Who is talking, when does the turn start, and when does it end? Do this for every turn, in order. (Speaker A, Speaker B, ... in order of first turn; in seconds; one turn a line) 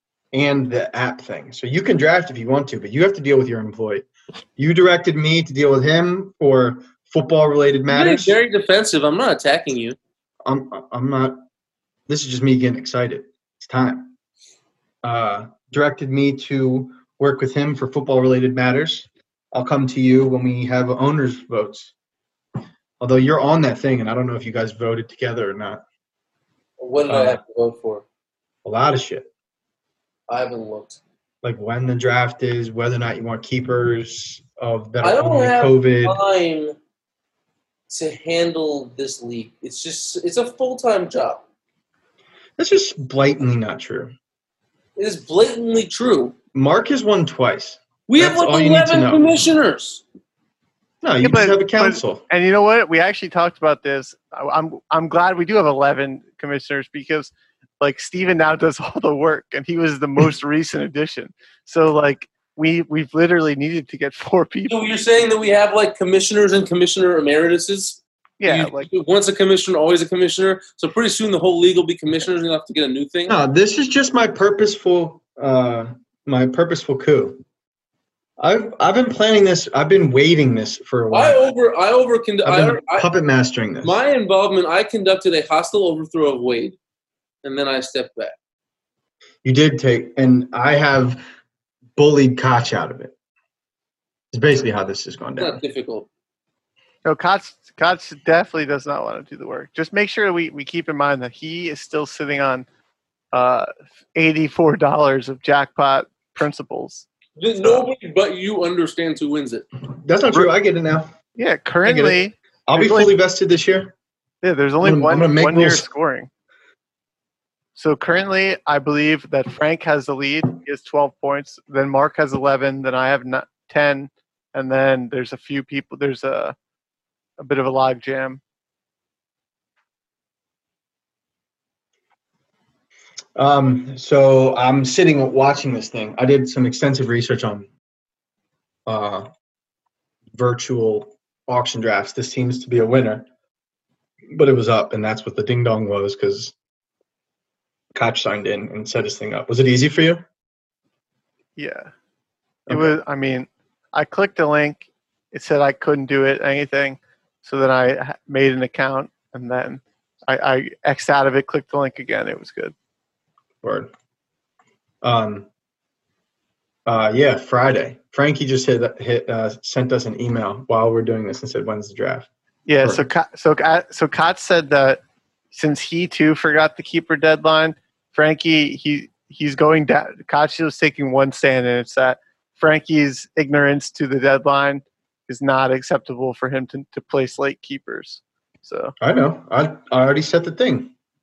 Speaker A: 0.3-8.4
Speaker B: 7.9-10.0
Speaker A: 10.4-11.4
Speaker A: 12.1-14.1
Speaker A: 15.0-21.9
Speaker A: 23.0-25.8
Speaker B: 26.8-28.1
Speaker A: 27.1-27.4
Speaker A: 28.6-29.3
Speaker B: 30.3-31.0
Speaker A: 31.4-36.2
Speaker B: 35.0-36.8
Speaker B: 37.9-41.4
Speaker A: 42.6-44.1
Speaker B: 45.0-46.4
Speaker A: 46.5-49.5
Speaker B: 48.1-50.0
Speaker A: 51.0-52.2
Speaker C: 51.2-64.8
Speaker B: 64.7-73.4
Speaker C: 68.4-68.9
Speaker A: 73.3-77.4
Speaker A: 78.4-81.5
Speaker B: 81.1-83.1
Speaker A: 82.4-84.0
Speaker B: 83.8-86.8
Speaker B: 87.4-88.3
Speaker A: 89.4-91.2
Speaker A: 92.0-93.1
Speaker A: 94.3-95.6
Speaker B: 95.4-96.1
Speaker C: 97.0-102.7
Speaker C: 103.3-107.1
Speaker B: 107.4-109.7
Speaker A: 110.0-111.1
Speaker C: 111.4-113.1
Speaker A: 111.8-113.9
Speaker C: 114.4-116.3
Speaker A: 114.8-115.9
Speaker C: 117.8-126.5
Speaker C: 127.4-128.4
Speaker A: 133.4-137.7
Speaker A: 138.9-139.3
Speaker A: 140.3-143.3
Speaker A: 144.3-146.6
Speaker A: 147.9-150.2
Speaker C: 151.6-151.9
Speaker A: 152.7-153.0
Speaker C: 152.7-162.7
Speaker A: 163.6-163.9
Speaker A: 165.0-165.5
Speaker A: 166.9-172.3
Speaker C: 172.7-175.0
Speaker A: 172.8-173.1
Speaker C: 175.5-188.9
Speaker A: 189.0-190.9